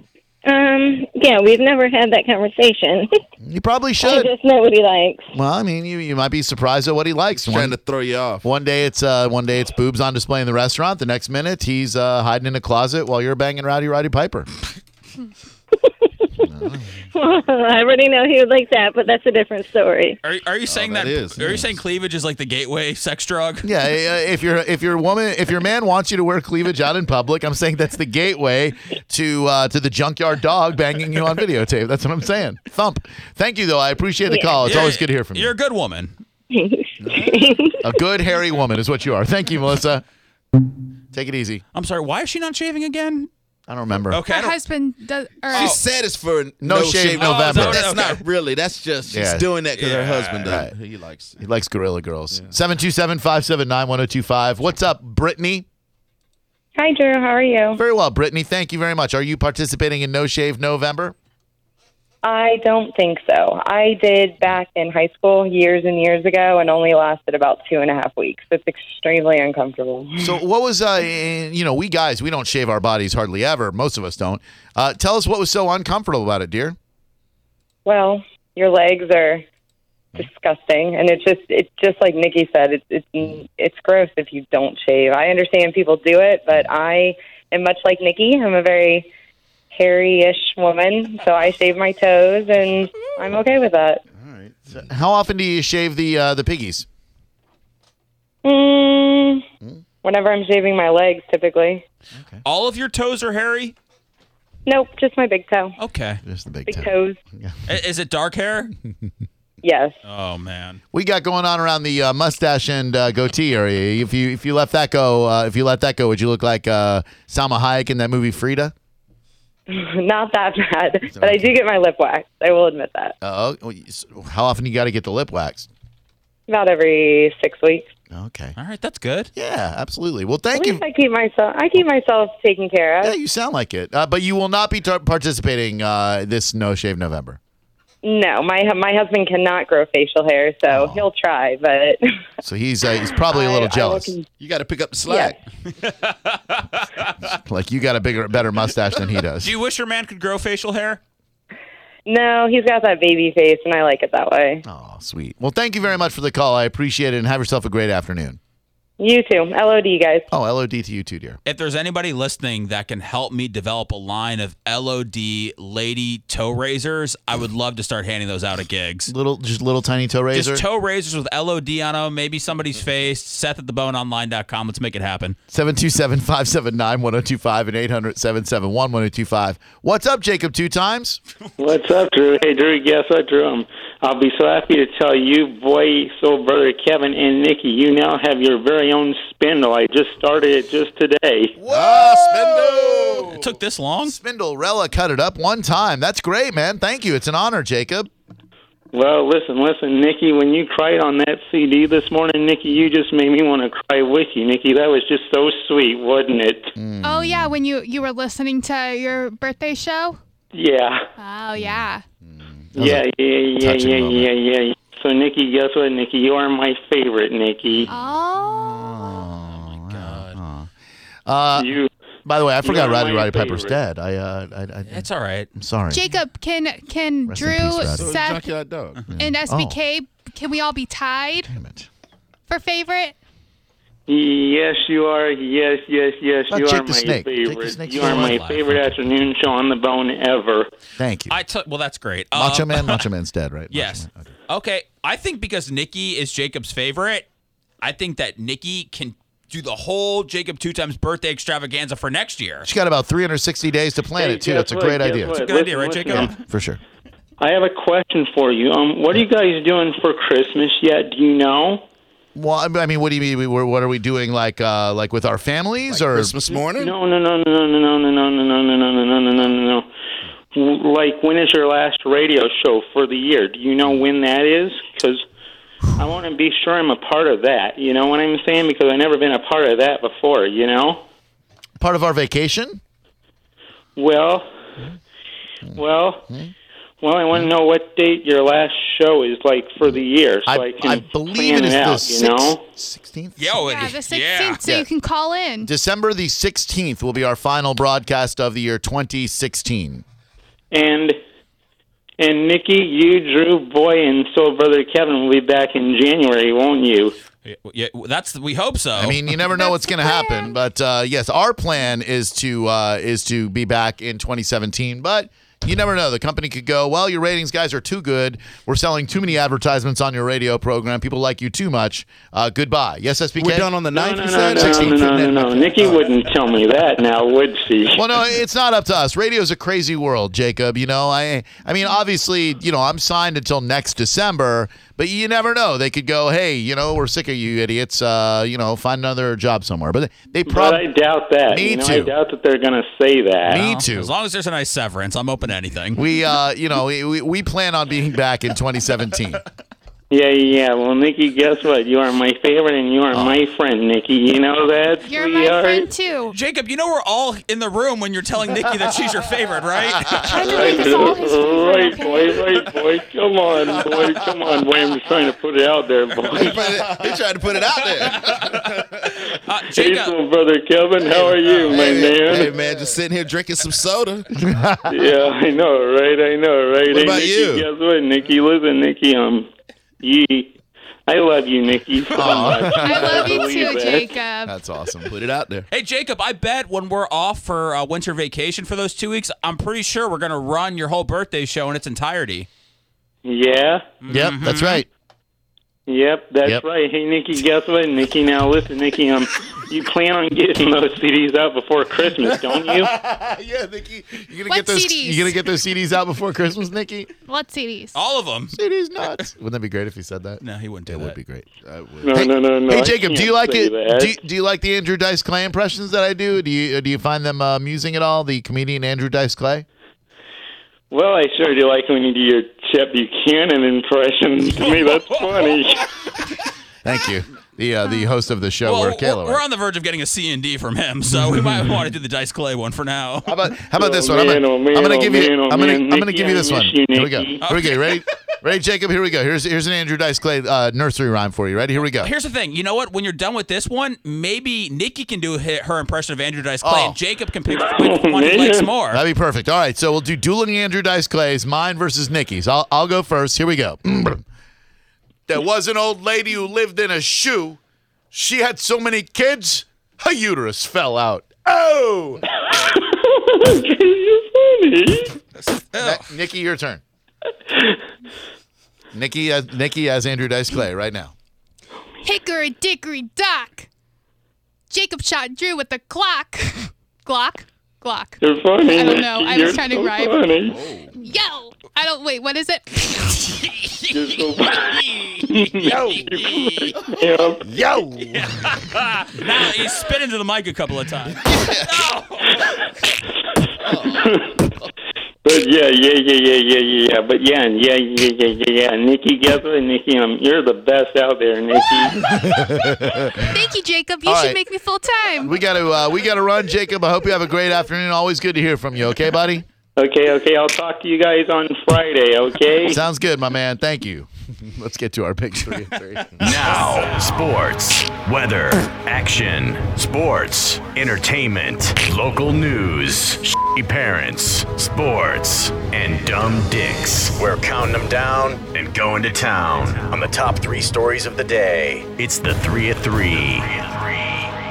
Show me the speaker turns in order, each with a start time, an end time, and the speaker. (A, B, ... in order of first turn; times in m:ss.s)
0:00.4-0:03.2 A
0:03.4-0:04.3 B
0:04.0-0:05.3 A
0:05.3-0:07.8 B
0:07.3-0:08.4 C
0:08.4-0:14.5 B
0:15.8-0:16.5 A
0:16.4-0:16.9 B
0:17.1-0:20.2 A
0:20.2-0:23.6 D
0:20.7-0:21.7 C
0:23.6-0:35.5 B
0:34.3-0:34.6 A
0:34.6-0:36.2 D
0:36.5-0:37.8 A
0:37.0-0:37.5 C
0:37.8-0:40.0 B
0:41.1-0:41.6 B
0:41.7-0:43.3 D
0:43.7-0:44.2 B
0:44.1-0:44.6 D
0:44.3-0:45.8 E
0:45.5-0:45.8 D
0:45.5-0:51.4 C
0:46.6-0:47.8 B
0:47.2-0:48.2 D
0:49.1-0:49.5 B
0:49.8-0:50.6 D
0:50.4-0:50.7 B
0:51.4-0:55.6 B
0:56.8-0:57.8 F
0:57.8-1:01.1 B
1:02.2-1:10.4 F
1:10.2-1:16.8 B
1:17.8-1:19.4 F
1:20.2-1:29.1 F
1:29.7-1:34.0 F
1:34.2-1:36.8 B
1:38.4-1:39.4 F
1:40.0-1:41.8 F
1:42.1-1:42.4 B
1:42.4-1:43.8 D
1:44.6-1:45.7 F
1:45.8-1:46.2 D
1:46.2-1:47.6 B
1:46.7-1:47.2 F
1:47.7-1:48.7 D
1:49.6-1:50.0 F
1:50.0-1:50.8 D
1:50.9-1:58.7 B
1:59.7-2:03.2 F
2:01.1-2:01.5 B
2:03.2-2:05.7 B
2:06.5-2:07.9 F
2:08.1-2:08.6 B
2:08.6-2:09.3 D
2:09.4-2:10.8 B
2:10.5-2:13.1 F
2:13.0-2:17.4 B
2:18.0-2:22.0 F
2:20.7-2:21.0 B
2:22.4-2:24.1 B
2:23.2-2:24.3 F
2:24.4-2:25.4 C
2:25.1-2:25.4 F
2:25.7-2:27.1 D
2:27.2-2:29.5 B
2:29.4-2:31.0 D
2:32.0-2:34.6 F
2:34.6-2:38.4 B
2:39.0-2:40.3 F
2:40.3-2:41.4 B
2:41.4-2:49.1 D
2:49.1-2:50.6 B
2:50.3-2:55.4 D
2:55.5-3:01.2 B
3:01.6-3:11.5 G
3:11.6-3:13.4 B
3:11.7-3:13.4 C
3:13.3-3:14.2 D
3:14.0-3:18.1 B
3:18.9-3:26.7 G
3:26.8-3:27.6 B
3:27.0-3:30.2 E
3:30.5-3:31.1 G
3:31.2-3:32.0 E
3:31.6-3:33.1 B
3:32.7-3:37.9 G
3:33.6-3:34.3 B
3:37.7-3:40.7 B
3:37.9-3:39.2 E
3:39.4-3:40.4 D
3:41.2-3:41.7 B
3:41.5-3:41.9 G
3:42.2-3:46.0 B
3:42.6-3:43.8 G
3:44.9-3:45.5 D
3:45.9-3:48.4 E
3:47.3-3:48.1 B
3:47.9-3:49.0 C
3:49.1-3:49.8 B
3:49.2-3:51.5 E
3:51.5-3:51.9 B
3:52.5-3:53.2 E
3:54.1-4:00.7 G
3:56.5-3:59.0 B
3:58.0-3:58.6 D
4:01.0-4:01.4 B
4:01.3-4:03.1 D
4:02.3-4:04.2 B
4:03.7-4:07.3 D
4:07.8-4:12.7 D
4:12.6-4:15.3 B
4:14.1-4:16.3 G
4:15.4-4:16.4 D
4:16.1-4:16.8 B
4:17.4-4:21.8 G
4:22.3-4:26.4 B
4:25.9-4:26.9 C
4:26.8-4:29.9 G
4:30.5-4:35.2 G
4:36.0-4:41.0 G
4:41.8-4:42.8 B
4:44.0-4:44.5 G
4:45.7-4:46.5 B
4:45.7-4:46.2 G
4:47.0-4:52.6 G
4:49.8-4:53.6 B
4:53.4-4:54.6 D
4:53.6-4:55.7 E
4:55.6-5:00.0 B
5:00.7-5:01.2 G
5:02.2-5:07.2 G
5:07.4-5:09.4 D
5:09.0-5:23.7 B
5:09.5-5:10.6 E
5:23.4-5:25.4 C
5:23.9-5:28.0 G
5:24.4-5:26.0 B
5:27.9-5:40.8 B
5:40.4-5:43.6 G
5:41.5-5:42.1 B
5:43.5-5:44.1 B
5:43.5-5:46.0 D
5:45.9-5:49.4 B
5:50.1-5:55.9 G
5:55.0-5:56.4 E
5:56.3-6:00.5 D
6:00.2-6:02.6 E
6:00.4-6:06.6 G
6:06.3-6:08.9 C
6:08.0-6:10.1 D
6:09.7-6:12.5 G
6:11.2-6:11.8 D
6:11.7-6:14.3 C
6:14.4-6:14.9 B
6:14.9-6:19.5 G
6:16.9-6:17.7 C
6:20.0-6:24.2 G
6:22.2-6:23.4 B
6:22.7-6:24.6 E
6:24.4-6:25.1 B
6:25.0-6:25.7 C
6:25.7-6:32.5 D
6:33.2-6:33.9 G
6:34.0-6:34.8 D
6:34.1-6:34.8 B
6:35.9-6:42.9 G
6:42.3-6:47.1 B
6:44.5-6:45.5 E
6:47.2-6:48.0 E
6:47.9-6:49.2 D
6:48.5-6:51.4 B
6:50.4-6:51.2 D
6:51.6-6:52.2 C
6:52.0-6:54.2 G
6:52.1-6:59.6 B
7:00.9-7:05.9 G
7:05.0-7:06.2 D
7:06.8-7:09.4 B
7:08.6-7:13.4 D
7:13.3-7:22.1 B
7:13.7-7:17.4 G
7:17.4-7:18.0 D
7:22.0-7:29.0 D
7:26.6-7:27.0 B
7:27.5-7:28.7 G
7:28.9-7:34.2 B
7:35.3-7:37.6 B
7:38.1-7:42.2 B
7:42.5-7:45.2 G
7:45.4-7:46.1 D
7:45.8-7:46.8 B
7:48.9-7:51.1 B
7:52.0-7:53.7 E
7:54.7-8:00.2 E
7:58.2-8:00.6 G
8:00.5-8:00.9 C
8:01.0-8:03.4 E
8:03.4-8:06.8 D
8:03.9-8:07.4 G
8:07.4-8:08.3 C
8:08.0-8:12.6 D
8:11.3-8:11.7 C
8:13.7-8:14.0 C
8:13.9-8:14.4 G
8:15.2-8:22.1 G
8:22.0-8:23.4 B
8:23.2-8:25.4 E
8:24.0-8:24.4 B
8:25.2-8:29.4 B
8:29.8-8:32.8 G
8:32.7-8:36.2 B
8:36.2-8:53.8 H